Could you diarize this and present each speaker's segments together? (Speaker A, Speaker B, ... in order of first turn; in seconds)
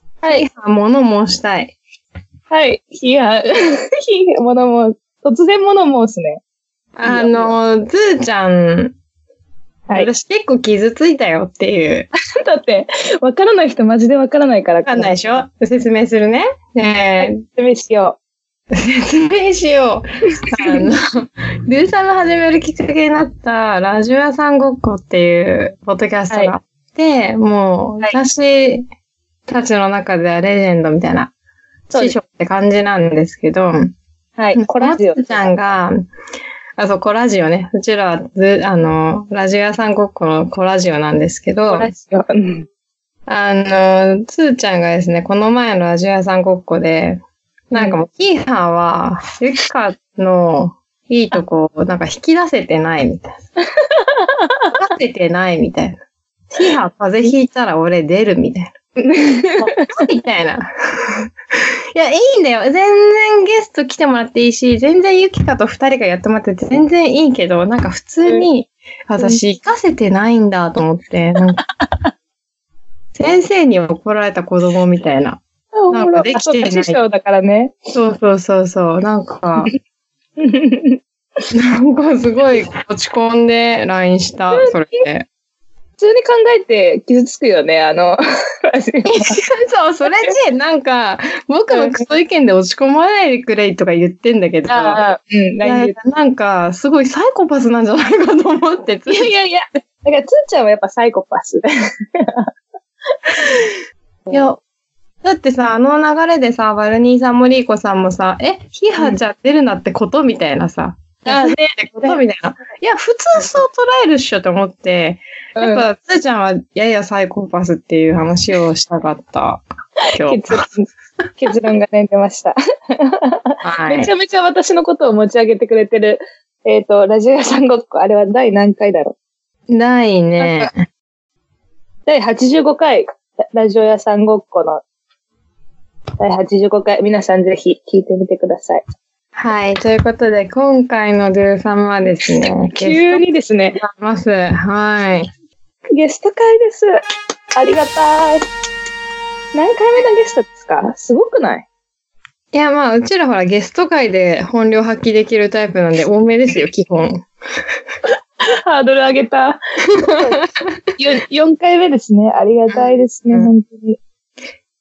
Speaker A: 0.2-1.8, 7.0-8.9, 9.9-12.1, 14.8-17.4, 18.7-28.8, 29.5-31.3, 31.9-33.9, 34.5-36.0, 36.8-41.9, 43.3-53.4, 54.8-56.0, 56.5-58.7, 59.6-61.3, 61.9-71.6, 73.2-77.0, 77.9-79.7, 81.5-85.3, 89.0-95.0, 95.6-99.3, 104.3-104.6, 105.2-119.6, 120.1-120.7, 123.6-124.1, 129.7-130.8, 139.3-143.2, 143.8-145.3, 152.5-157.2
Speaker B: 2.5-6.4, 7.0-7.5, 12.4-15.1, 17.2-18.2, 20.4-20.8, 31.9-32.2, 34.4-35.5, 41.7-42.7, 53.8-54.8, 59.0-59.9, 71.8-72.1, 75.7-77.9, 80.4-81.0, 84.5-85.0, 86.0-89.3, 91.7-92.0, 94.7-95.9, 99.1-102.5, 103.3-103.7, 111.2-112.2, 115.6-115.8, 120.0-120.9, 121.4-129.2, 130.4-130.7, 132.1-134.8, 136.2-138.8, 142.7-143.8, 145.9-147.0, 147.6-148.4, 149.5-151.7, 158.4-160.4, 161.0-164.0